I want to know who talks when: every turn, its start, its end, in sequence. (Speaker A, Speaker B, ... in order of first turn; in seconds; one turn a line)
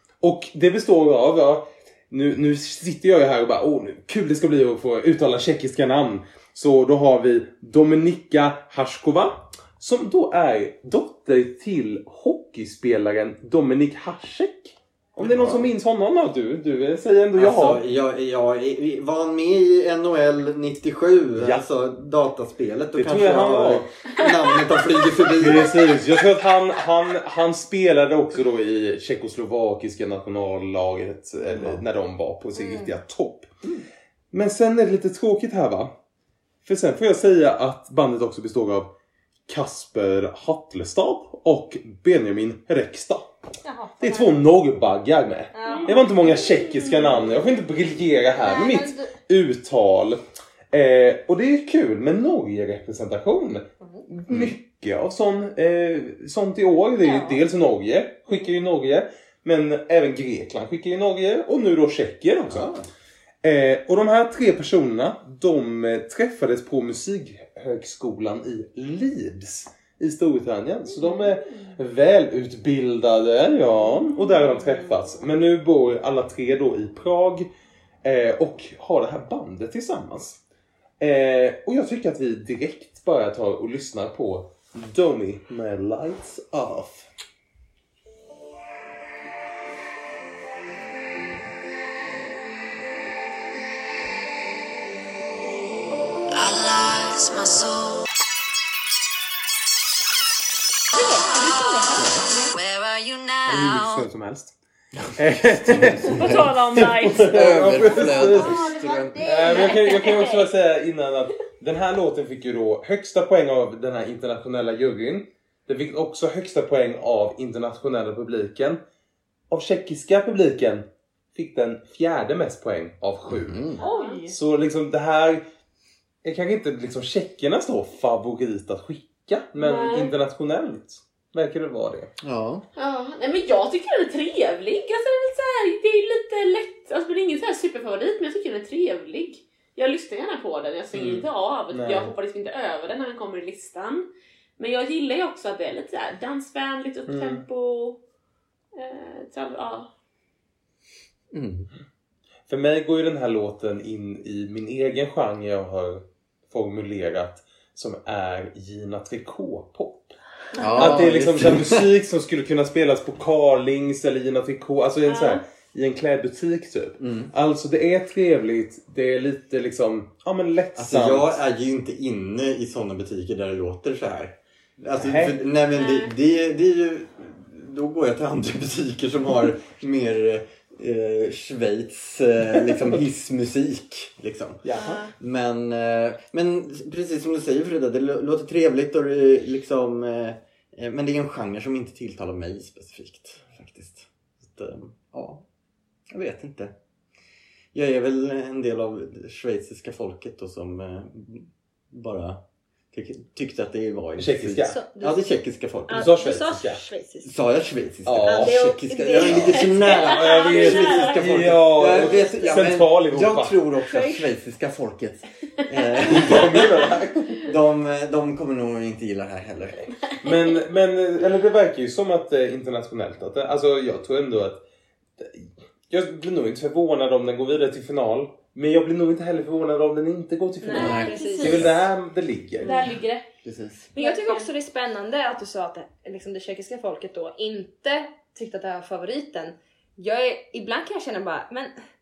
Speaker A: 0.2-17.8
Speaker B: 15.2-15.7
Speaker B: 17.3-25.9
Speaker A: 21.3-21.6
Speaker A: 22.9-23.9
Speaker A: 25.3-33.7
Speaker B: 31.5-31.8
Speaker C: 32.5-32.9
Speaker A: 34.3-35.9
Speaker A: 36.6-38.9
Speaker A: 39.5-43.3
Speaker C: 43.6-44.4
Speaker A: 44.0-62.7
Speaker C: 45.5-46.0
Speaker D: 45.6-47.1
Speaker C: 48.3-49.1
Speaker C: 53.8-54.0
Speaker B: 54.3-54.5
Speaker C: 57.0-57.4
Speaker B: 62.5-62.9
Speaker A: 63.4-77.5
Speaker D: 74.3-74.7
Speaker A: 78.0-80.4
Speaker A: 81.0-87.1
Speaker E: 96.3-98.0
Speaker C: 100.9-102.5
Speaker E: 102.4-104.1
Speaker A: 103.5-104.5
Speaker B: 105.0-109.3
Speaker A: 105.1-118.8
Speaker D: 106.1-107.5
Speaker C: 107.8-110.5
Speaker A: 119.5-125.4
Speaker B: 123.3-123.8
Speaker D: 123.8-124.3
Speaker C: 123.8-124.2
Speaker A: 126.2-132.1
Speaker D: 129.6-130.1
Speaker B: 132.2-132.6
Speaker D: 132.8-148.0
Speaker A: 140.9-142.1
Speaker A: 147.1-147.4
Speaker D: 148.7-149.9
Speaker B: 151.3-151.7
Speaker A: 152.5-160.2
Speaker B: 160.6-161.9
Speaker C: 160.6-160.9
Speaker A: 160.7-171.4
Speaker D: 165.1-165.4
Speaker B: 167.0-167.3
Speaker B: 170.8-195.4
Speaker A: 175.0-175.4
Speaker D: 175.8-176.1
Speaker A: 184.6-185.0
Speaker C: 184.8-185.1
Speaker B: 196.1-196.7
Speaker B: 197.7-206.2
Speaker A: 204.2-204.8
Speaker C: 204.7-205.2
Speaker C: 205.9-207.3
Speaker A: 205.9-206.8
Speaker B: 207.2-219.9
Speaker A: 208.0-213.6
Speaker C: 208.2-210.5
Speaker D: 209.6-211.3
Speaker C: 211.9-212.5
Speaker C: 213.8-214.2
Speaker A: 216.0-217.4
Speaker A: 220.2-224.6
Speaker A: 225.2-232.7
Speaker C: 230.6-231.7
Speaker D: 230.7-231.7
Speaker B: 230.7-231.7
Speaker D: 232.6-233.3
Speaker C: 232.6-232.9
Speaker B: 233.4-233.9
Speaker C: 233.9-241.8
Speaker D: 233.9-234.5